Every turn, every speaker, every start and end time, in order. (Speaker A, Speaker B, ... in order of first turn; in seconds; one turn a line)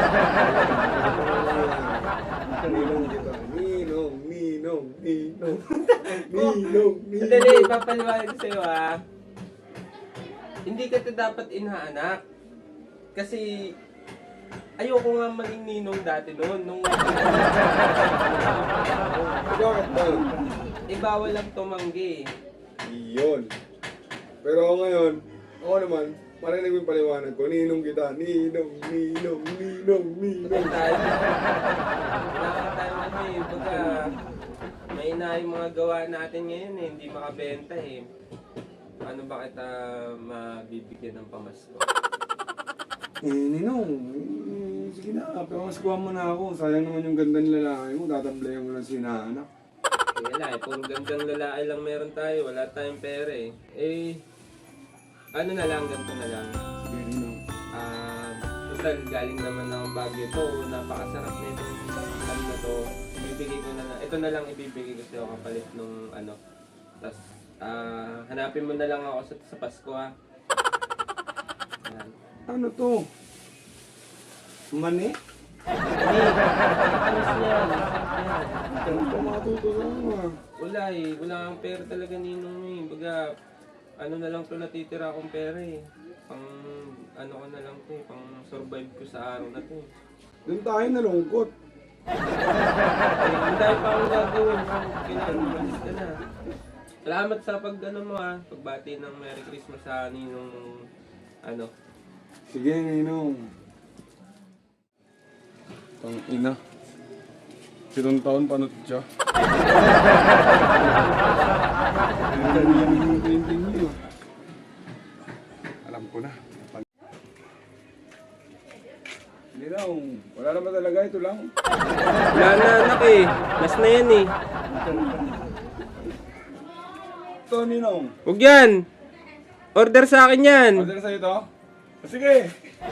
Speaker A: 0.4-5.6
Speaker B: 5.5-8.9
Speaker A: 6.2-7.7
Speaker B: 10.7-12.2
Speaker B: 13.1-13.5
Speaker B: 14.8-19.6
Speaker A: 19.5-20.3
Speaker B: 20.9-22.3
Speaker A: 22.8-23.5
Speaker A: 24.4-30.8
Speaker B: 30.4-34.1
Speaker B: 34.9-38.0
Speaker B: 39.0-41.9
Speaker A: 43.2-49.5
Speaker B: 50.1-54.2
Speaker B: 55.4-56.5
Speaker A: 56.8-57.4
Speaker B: 57.8-66.4
Speaker B: 67.0-70.1
Speaker B: 71.8-72.1
Speaker A: 72.5-73.0
Speaker A: 74.7-75.1
Speaker B: 76.0-78.9
Speaker A: 78.8-80.3
Speaker B: 80.6-83.2
Speaker B: 84.0-85.8
Speaker B: 86.3-89.9
Speaker A: 90.5-91.5
Speaker B: 93.2-96.1
Speaker B: 97.0-100.7
Speaker A: 102.5-103.4
Speaker A: 106.0-106.6
Speaker A: 107.9-109.0
Speaker A: 110.8-111.2
Speaker A: 111.9-114.0
Speaker A: 115.8-116.8
Speaker A: 119.5-121.5
Speaker B: 122.3-124.3
Speaker A: 124.8-125.2
Speaker A: 127.5-128.1
Speaker B: 128.3-128.8
Speaker B: 129.8-130.8
Speaker A: 130.8-131.4
Speaker A: 132.0-132.5